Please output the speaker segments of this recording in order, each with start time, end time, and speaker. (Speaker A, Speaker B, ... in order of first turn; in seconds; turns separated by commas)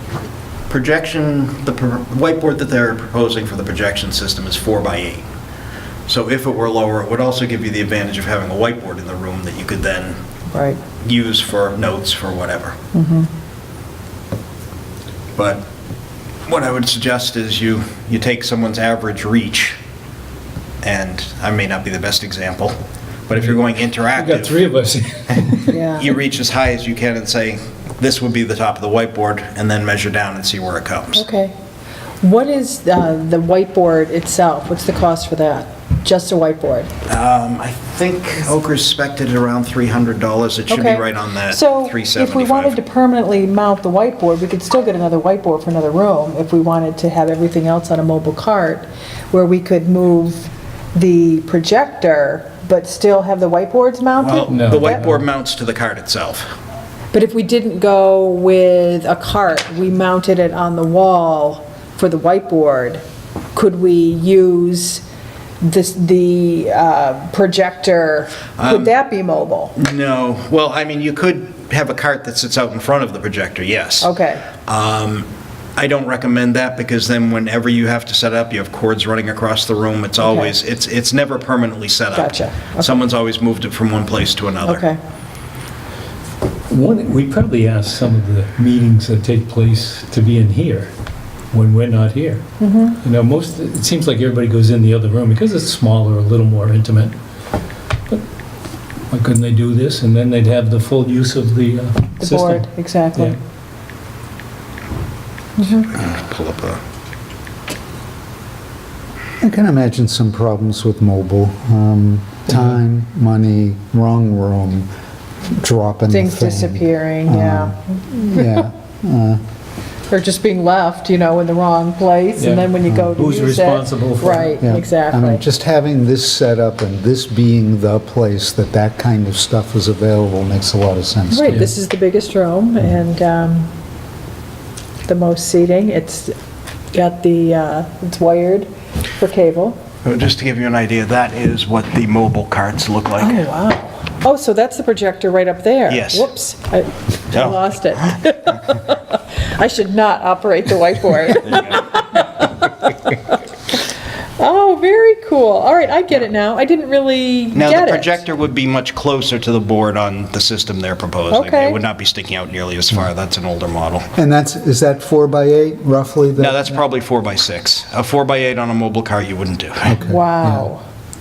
Speaker A: 0.7-5.3, Speaker A: 6.1-10.2, Speaker B: 10.5-10.8, Speaker A: 11.0-12.8, Speaker B: 12.9-13.3, Speaker A: 15.3-15.6, Speaker A: 16.4-19.8, Speaker A: 20.8-22.8, Speaker A: 23.3-24.6, Speaker C: 23.3-23.6, Speaker C: 24.1-25.8, Speaker B: 25.7-26.1, Speaker A: 25.9-31.2, Speaker B: 31.1-31.5, Speaker B: 32.2-36.9, Speaker A: 37.1-42.7, Speaker B: 40.7-55.0, Speaker A: 54.1-56.5, Speaker C: 54.5-55.2, Speaker B: 57.1-63.0, Speaker B: 63.5-65.0, Speaker B: 65.6-69.7, Speaker A: 68.6-68.9, Speaker A: 69.8-74.1, Speaker B: 74.0-74.5, Speaker A: 74.6-84.8, Speaker B: 80.2-80.5, Speaker B: 82.1-83.0, Speaker B: 84.6-85.0, Speaker C: 86.7-90.9, Speaker C: 91.5-92.4, Speaker B: 92.6-93.0, Speaker C: 93.0-97.2, Speaker C: 99.1-103.4, Speaker B: 102.2-103.4, Speaker B: 105.6-105.9, Speaker A: 105.8-106.8, Speaker D: 109.4-114.9, Speaker C: 112.5-112.8, Speaker D: 115.5-119.4, Speaker B: 116.1-117.8, Speaker B: 118.3-118.6, Speaker B: 120.1-125.4, Speaker C: 122.4-124.5, Speaker D: 122.8-123.1, Speaker D: 124.6-131.7, Speaker B: 131.3-133.7, Speaker B: 135.1-136.3, Speaker B: 136.9-139.8, Speaker A: 140.0-143.5, Speaker B: 143.2-153.2, Speaker A: 145.9-146.3, Speaker A: 147.3-147.6, Speaker A: 151.4-152.0, Speaker B: 154.4-158.2, Speaker A: 157.5-164.1, Speaker B: 161.3-161.8, Speaker D: 164.2-166.7, Speaker A: 166.4-170.0, Speaker D: 169.9-170.7, Speaker B: 170.0-170.8